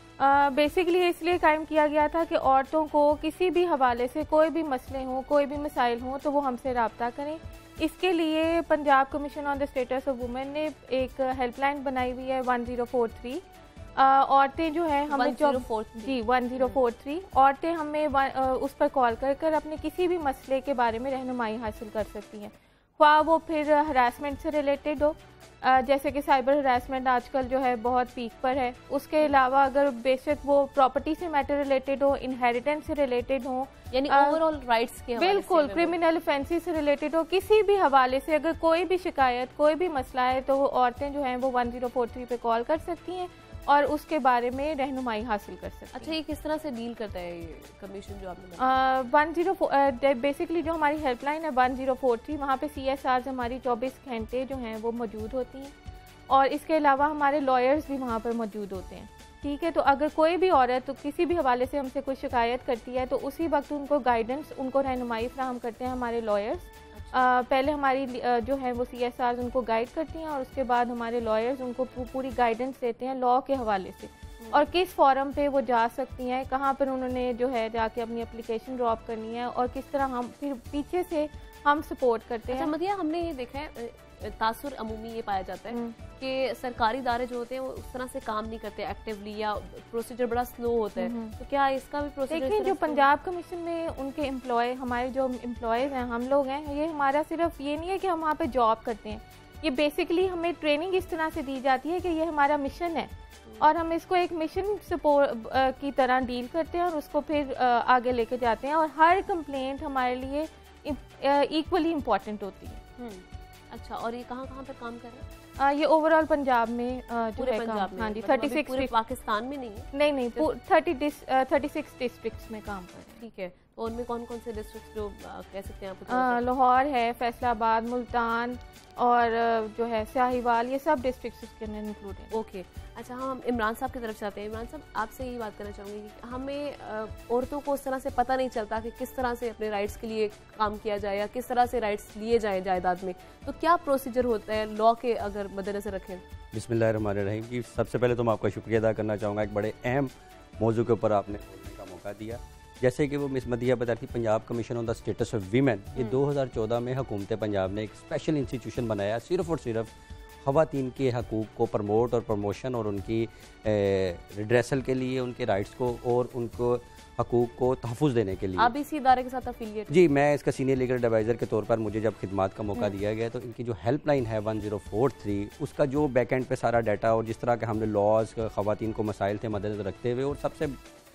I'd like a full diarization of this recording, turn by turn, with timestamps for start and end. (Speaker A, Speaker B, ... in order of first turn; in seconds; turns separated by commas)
Speaker A: 0.2-34.4, Speaker B: 15.1-16.8, Speaker B: 33.9-36.0, Speaker A: 35.2-46.2, Speaker B: 45.9-48.7, Speaker A: 48.6-55.7, Speaker A: 56.3-82.7, Speaker B: 66.9-67.3, Speaker B: 74.4-74.7, Speaker B: 82.5-93.1, Speaker A: 85.7-86.0, Speaker A: 91.0-91.3, Speaker A: 92.3-112.8, Speaker B: 113.0-115.2, Speaker A: 115.6-118.9, Speaker B: 117.4-120.5, Speaker A: 119.9-123.2, Speaker B: 123.2-126.4, Speaker A: 126.1-132.3, Speaker B: 132.3-146.2, Speaker C: 146.5-168.7, Speaker B: 156.0-156.2, Speaker B: 168.6-170.0, Speaker C: 169.9-180.8